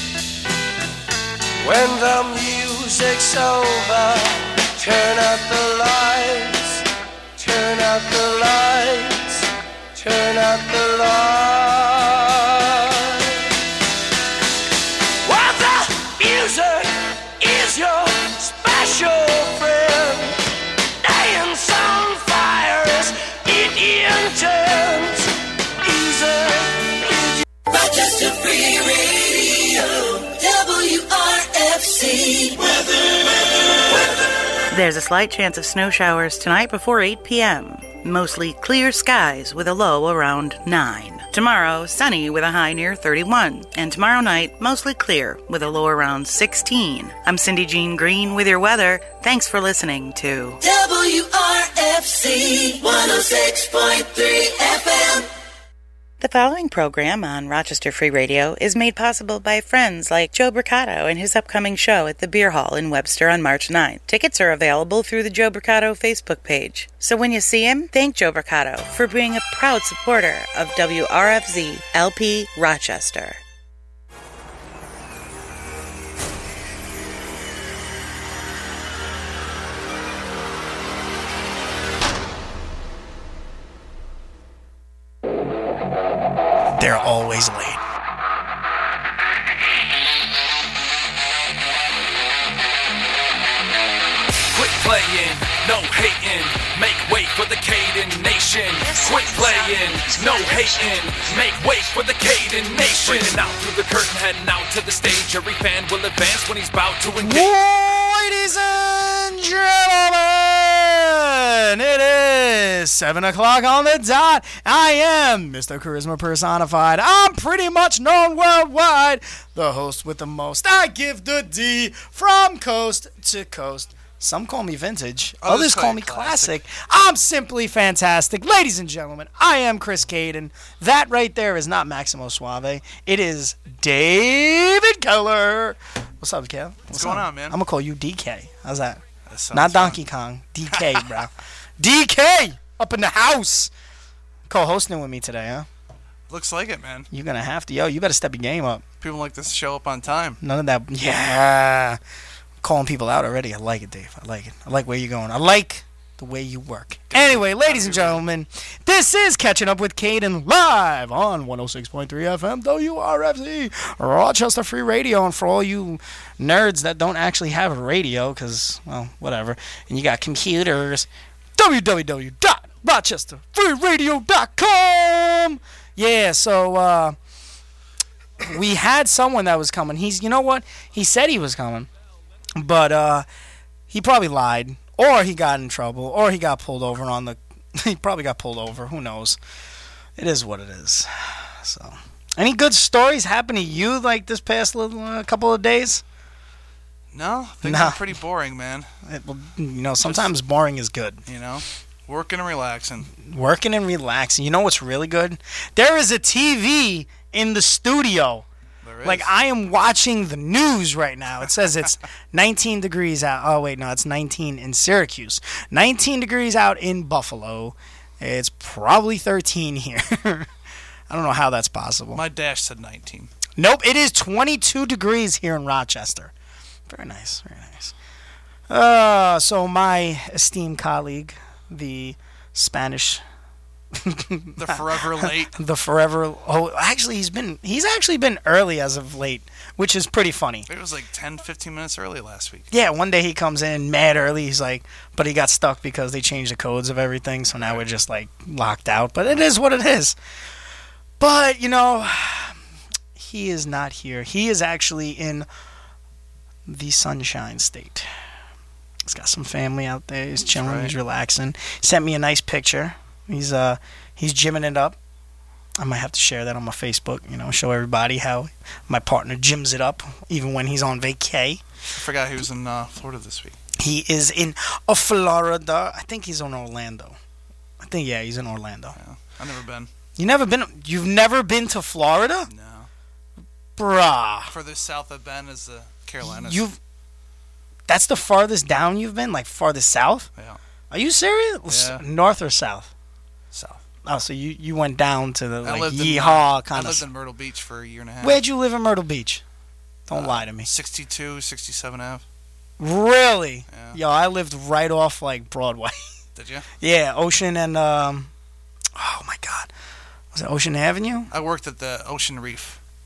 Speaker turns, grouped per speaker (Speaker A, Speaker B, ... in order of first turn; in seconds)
Speaker A: 1.6-6.8, 7.4-13.5, 15.2-20.4, 21.0-25.3, 25.8-27.4, 32.6-33.5
Speaker B: 27.7-32.6, 50.6-55.3
Speaker C: 34.7-50.6, 56.2-73.4
Speaker D: 86.7-87.8, 107.2-143.7, 144.5-145.7, 147.1-148.8, 150.4-152.0, 152.6-177.2, 178.4-181.9, 182.6-183.2, 183.9-189.4, 190.2-196.0, 197.6-198.0, 199.0-201.2, 203.2-208.4, 209.0-220.5, 221.1-222.2, 223.6-226.3, 226.9-227.9, 228.7-233.2, 233.9-240.7, 242.7-250.2, 251.2-252.6, 253.2-255.5, 256.7-258.1, 259.0-265.0, 265.8-271.6, 273.8-277.2, 277.8-279.0, 280.2-282.5, 283.8-284.5, 286.2-286.8, 287.9-290.3, 290.9-292.9, 294.0-297.0, 298.2-299.4, 300.1-300.7, 302.8-306.0, 306.8-308.3, 308.9-309.7, 310.3-311.3
Speaker E: 94.5-107.5
Speaker F: 125.4-126.6, 136.9-137.6, 139.2-140.0, 146.3-147.1, 149.0-150.4, 157.1-158.2, 197.1-198.9, 200.0-200.3, 201.3-203.1, 208.8-209.3, 222.1-223.3, 234.6-235.5, 240.7-242.7, 247.6-247.8, 260.4-260.9, 271.9-273.6, 278.9-279.9, 282.5-282.9, 284.5-286.6, 291.7-292.0, 293.5-293.8, 295.6-298.4, 300.1-302.2, 303.7-304.0, 306.4-306.7, 311.3-312.8